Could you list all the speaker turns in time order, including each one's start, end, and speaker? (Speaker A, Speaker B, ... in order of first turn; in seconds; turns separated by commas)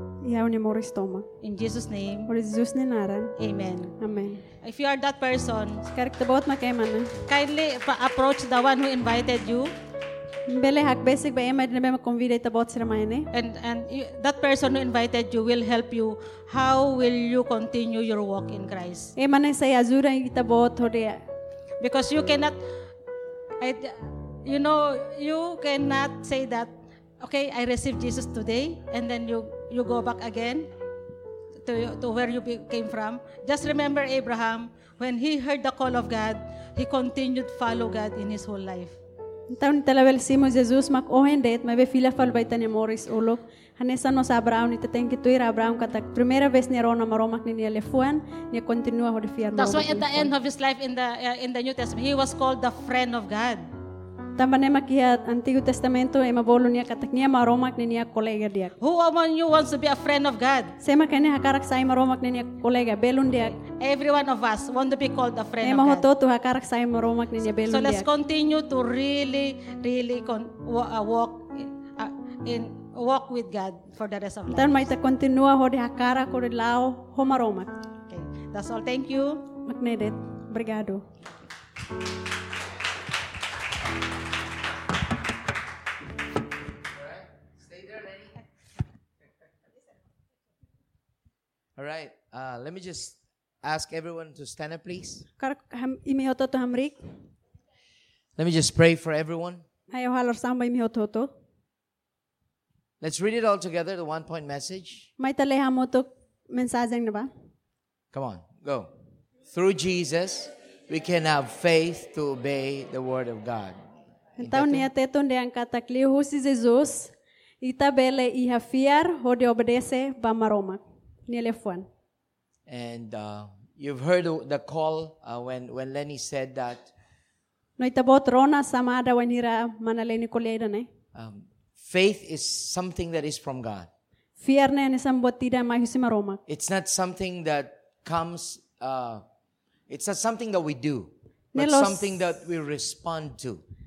Speaker A: 0.2-1.3, Speaker B: 1.4-2.3, Speaker A: 2.3-3.4, Speaker B: 3.4-4.0, Speaker A: 4.0-4.4, Speaker B: 4.6-5.8, Speaker A: 5.8-7.2, Speaker B: 7.3-9.7, Speaker A: 10.5-13.3, Speaker B: 13.3-19.1, Speaker A: 19.1-21.2, Speaker B: 21.8-22.6, Speaker B: 23.6-30.7, Speaker B: 31.6-39.0, Speaker A: 39.5-50.3, Speaker B: 49.5-53.7, Speaker A: 54.4-58.7, Speaker B: 58.8-60.8, Speaker A: 60.8-63.6, Speaker B: 63.6-66.1, Speaker A: 65.6-68.1, Speaker B: 67.5-74.9, Speaker A: 74.5-77.7, Speaker B: 78.1-79.5, Speaker A: 79.7-81.0, Speaker C: 87.7-88.3, Speaker C: 91.8-95.2, Speaker A: 95.4-97.0, Speaker C: 98.4-99.6, Speaker A: 99.9-101.3, Speaker C: 103.0-105.1, Speaker A: 105.2-107.3, Speaker C: 108.1-108.9, Speaker C: 109.5-113.8, Speaker A: 114.4-121.9, Speaker C: 114.4-114.8, Speaker C: 122.7-126.9, Speaker A: 127.8-130.9, Speaker C: 131.1-133.9, Speaker A: 134.4-136.4, Speaker C: 136.5-139.2, Speaker C: 139.9-143.6, Speaker A: 141.5-142.2